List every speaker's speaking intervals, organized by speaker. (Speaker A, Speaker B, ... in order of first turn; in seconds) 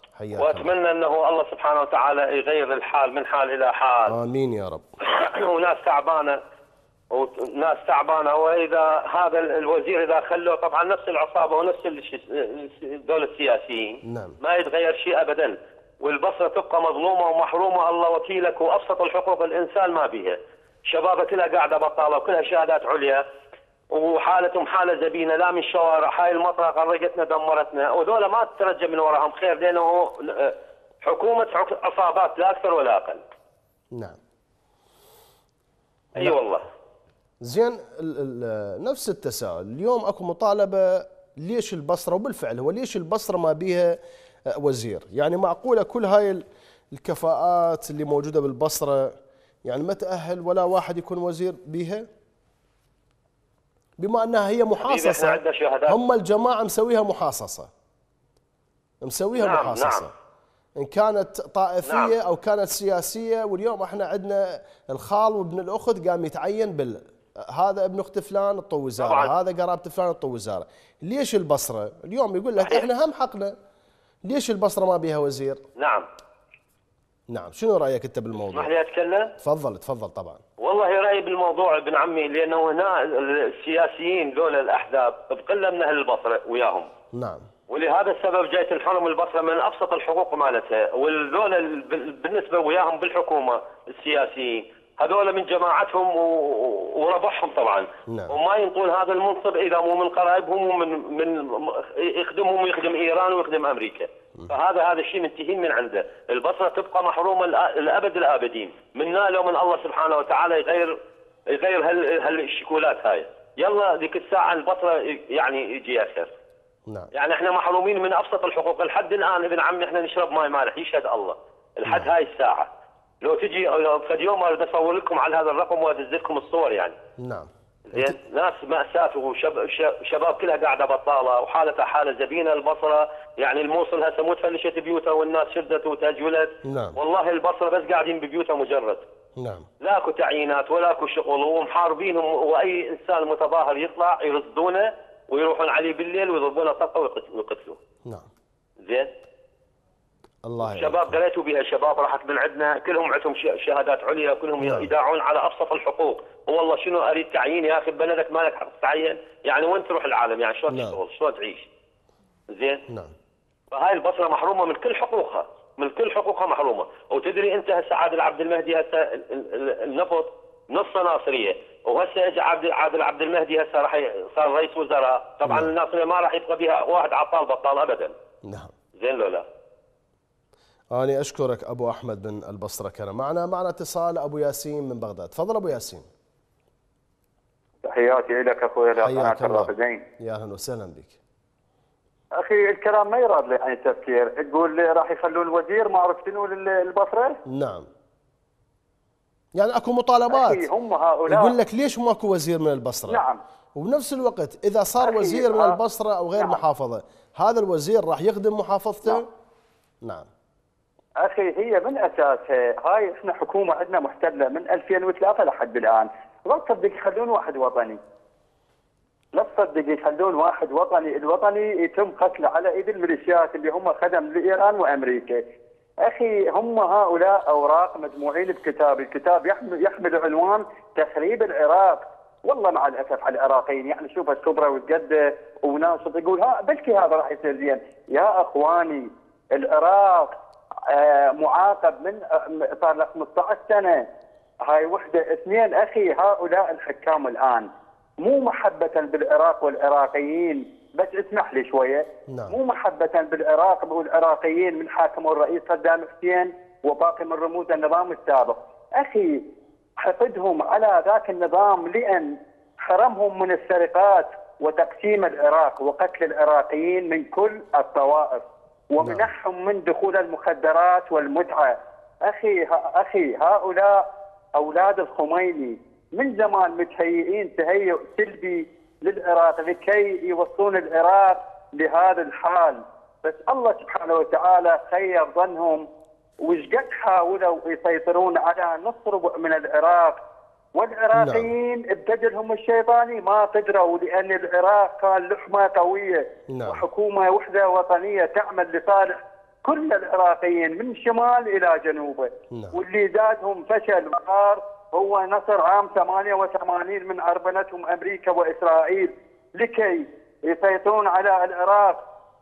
Speaker A: 0.2-0.7, 4.1-4.8, 14.0-14.3, 33.9-34.2, 37.4-44.0, 44.5-49.1, 49.6-52.0, 54.0-57.7, 59.0-60.1, 60.8-73.5, 74.2-75.6, 77.3-78.7, 79.4-80.4, 87.1-87.5, 98.1-98.4, 121.8-122.1, 127.2-128.2, 136.6-137.0, 139.4-139.7, 150.4-151.2, 154.6-154.9, 160.7-161.0, 162.9-163.1, 175.4-175.7, 178.5-178.7, 180.9-186.1, 189.0-191.2, 197.5-197.9, 199.5-200.7, 201.3-203.2, 203.8-209.3, 210.0-210.3, 252.3-252.6, 269.0-269.3, 291.1-291.5, 296.5-296.8, 302.5-302.8
Speaker B: 0.4-4.1, 5.0-6.4, 7.1-23.2, 23.9-33.2, 36.1-36.6, 54.8-56.0, 59.4-60.1, 61.8-62.1, 69.0-69.3, 75.8-76.0, 78.5-79.3, 80.6-86.9, 87.7-116.3, 117.1-122.7, 123.2-127.0, 127.9-139.0, 139.8-147.8, 148.8-149.1, 150.6-161.7, 162.5-162.8, 163.7-178.1, 178.9-179.4
Speaker C: 187.8-190.0, 192.4-197.4, 200.3-201.5, 203.1-203.4, 205.0-205.8, 206.3-206.6, 211.2-218.0, 219.3-225.4, 226.0-240.3, 240.9-244.1, 244.7-247.7, 248.2-259.4, 260.0-274.0, 274.6-285.9, 286.4-290.2, 290.7-312.0